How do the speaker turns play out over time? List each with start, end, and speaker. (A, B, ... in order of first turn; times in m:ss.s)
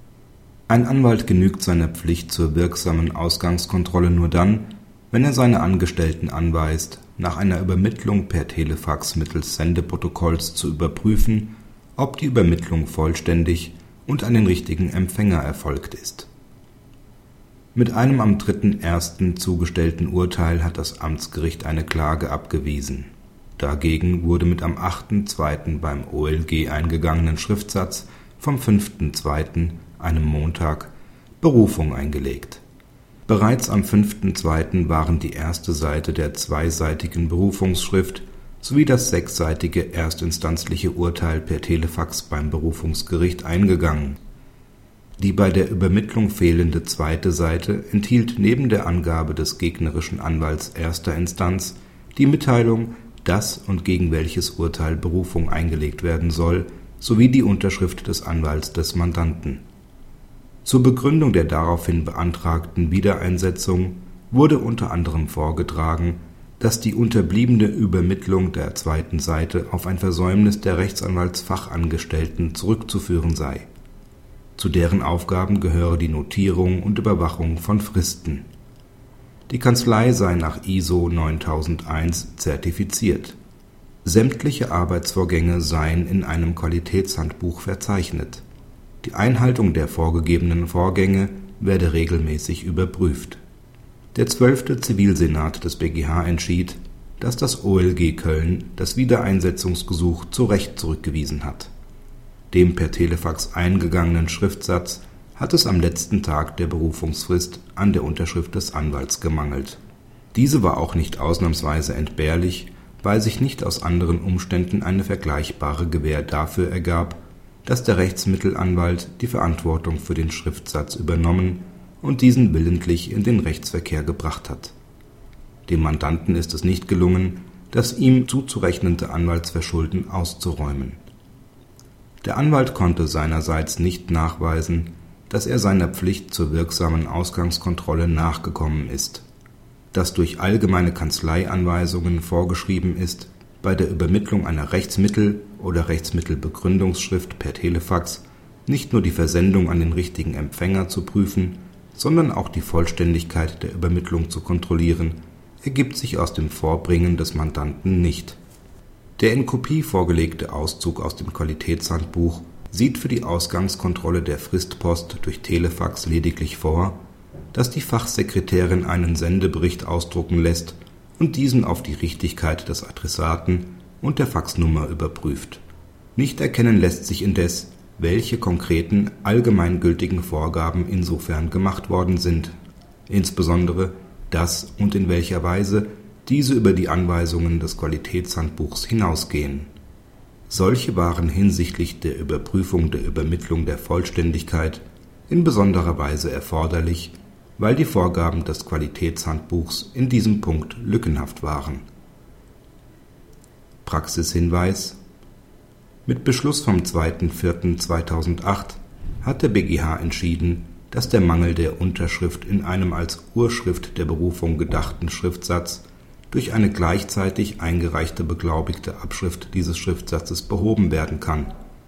0:00.7-0:16.3 A
0:17.7-0:32.6 A
0:33.3-0:44.2 A
0:45.2-0:59.6 A
1:00.6-1:13.7 A
1:14.6-1:18.4 A
1:19.5-1:23.4 A
1:24.0-1:28.4 A
1:29.0-1:33.4 A
1:34.1-1:41.7 A
1:42.5-1:49.8 A
1:50.3-2:04.7 A
2:05.7-2:11.0 A
2:12.2-2:19.2 A
2:19.9-2:38.4 A
2:39.2-2:47.0 A
2:47.5-2:55.6 A
2:56.2-3:02.5 A
3:03.1-3:09.7 A
3:10.5-3:21.8 A
3:23.8-3:25.0 A
3:26.0-3:41.5 A